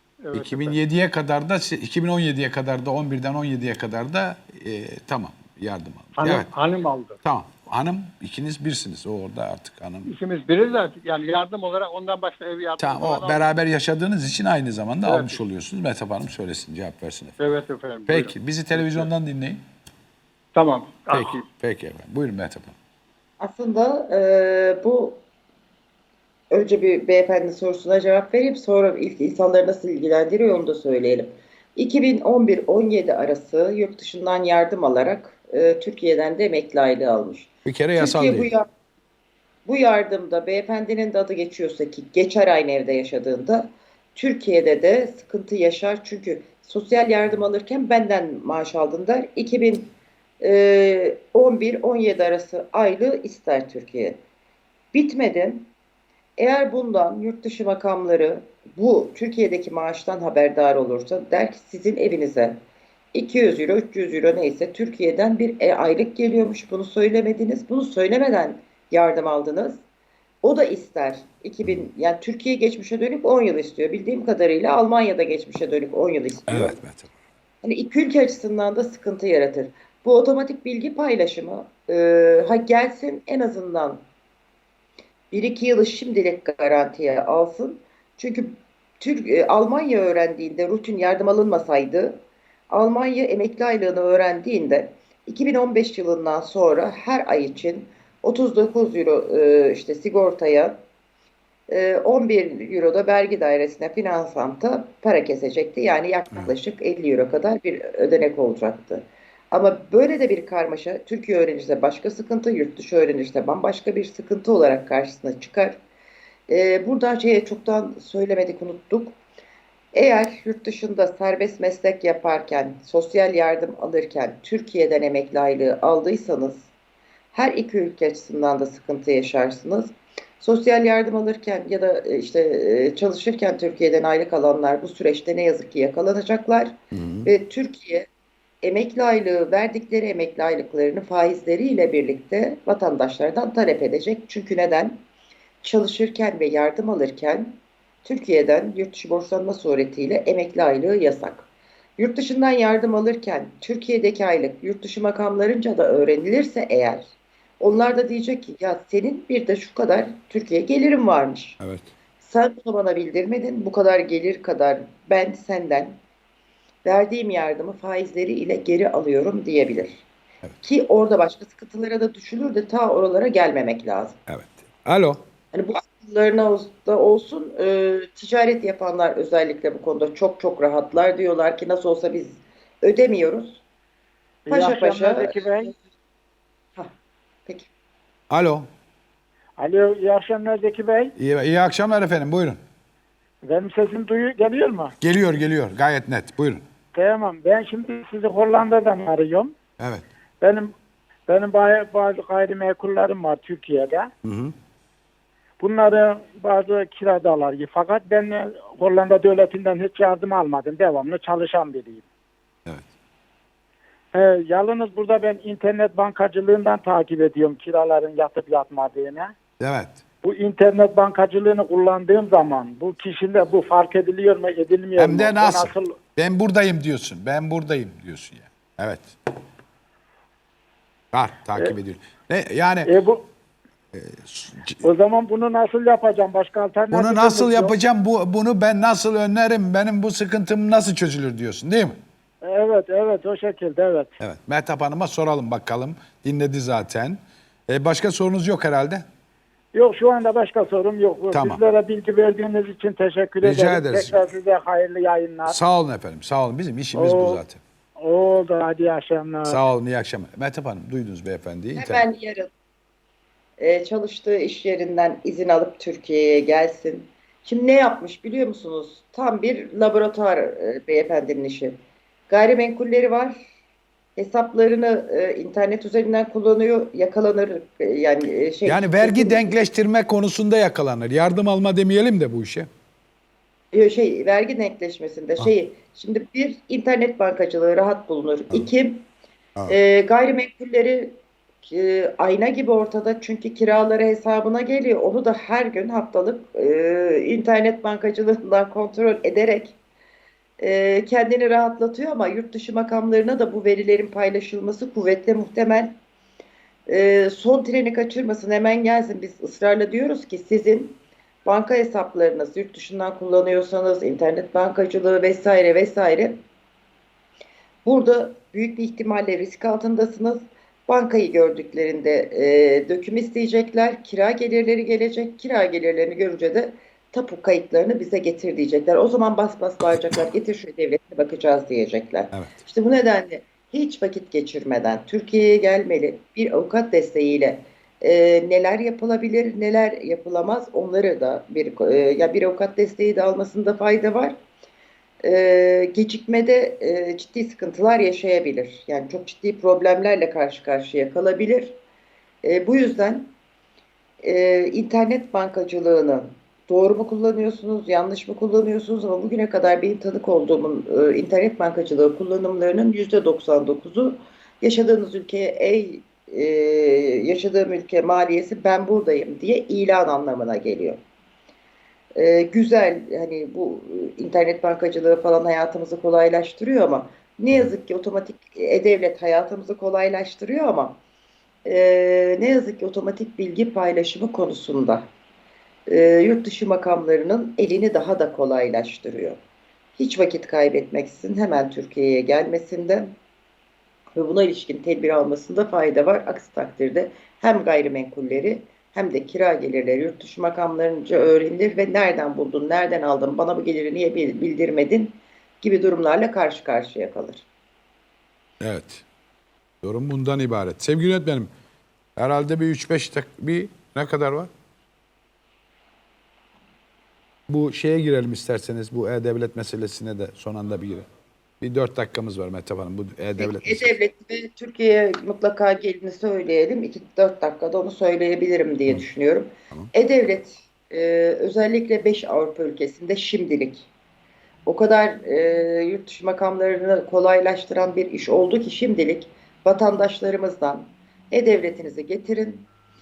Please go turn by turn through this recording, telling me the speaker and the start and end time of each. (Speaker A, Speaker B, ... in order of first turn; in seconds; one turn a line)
Speaker A: 0.2-0.8
Speaker B: 0.3-6.5
Speaker A: 6.2-7.2
Speaker B: 7.2-10.1
Speaker A: 10.1-13.4
Speaker B: 12.8-17.5
Speaker A: 15.1-15.4
Speaker A: 17.4-19.1
Speaker B: 18.1-19.6
Speaker A: 20.5-21.4
Speaker B: 21.1-22.8
Speaker C: 23.4-25.2
Speaker C: 26.5-38.7
Speaker B: 37.6-38.5
Speaker C: 39.7-54.2
Speaker C: 54.9-55.7
Speaker C: 56.4-62.6
Speaker C: 63.1-69.8
Speaker C: 70.4-76.8
Speaker B: 76.5-77.1
Speaker C: 77.6-84.0
Speaker C: 85.3-100.8
Speaker C: 101.7-115.8
Speaker C: 116.5-119.2
Speaker C: 119.9-126.7
Speaker C: 127.3-138.1
Speaker B: 136.9-137.3
Speaker C: 138.6-145.0
Speaker C: 145.6-161.6
Speaker B: 161.6-161.9
Speaker C: 162.2-166.0
Speaker C: 166.8-170.0
Speaker C: 170.6-174.2
Speaker B: 174.3-175.2
Speaker C: 175.5-183.6
Speaker D: 184.5-185.7
Speaker C: 184.5-185.8
Speaker B: 188.3-188.7
Speaker D: 189.6-191.2
Speaker B: 191.2-192.6
Speaker D: 193.4-194.9
Speaker B: 195.0-196.6
Speaker D: 196.9-199.5
Speaker B: 199.8-200.1
Speaker D: 200.4-200.7
Speaker D: 201.3-204.1
Speaker B: 204.2-204.6
Speaker D: 205.6-212.1
Speaker D: 214.1-219.3
Speaker B: 219.6-220.0
Speaker D: 220.2-226.0
Speaker B: 225.0-229.2
Speaker B: 231.1-232.9
Speaker D: 232.9-233.2
Speaker B: 233.9-234.9
Speaker D: 234.8-237.8
Speaker B: 236.9-242.0
Speaker D: 242.4-244.1
Speaker B: 244.2-249.1
Speaker D: 249.7-255.6
Speaker B: 251.3-251.6
Speaker B: 253.4-254.2
Speaker B: 255.5-257.6
Speaker D: 256.9-257.4
Speaker D: 258.0-259.6
Speaker B: 259.5-262.1
Speaker C: 261.8-262.5
Speaker C: 263.6-273.5
Speaker C: 274.2-279.5
Speaker B: 278.7-282.7
Speaker C: 283.7-289.1
Speaker C: 289.7-299.8
Speaker C: 300.6-306.0
Speaker C: 306.9-316.4
Speaker C: 317.9-344.4
Speaker C: 345.2-351.8
Speaker C: 352.4-353.4
Speaker C: 354.2-371.0
Speaker C: 372.1-381.0
Speaker C: 381.6-385.1
Speaker C: 385.9-389.4
Speaker C: 390.0-393.1
Speaker C: 394.2-407.5
Speaker B: 408.6-409.1
Speaker B: 409.8-411.5
Speaker B: 412.2-414.5
Speaker B: 417.5-421.1
Speaker B: 421.6-423.9
Speaker C: 423.4-433.9
Speaker C: 434.7-442.6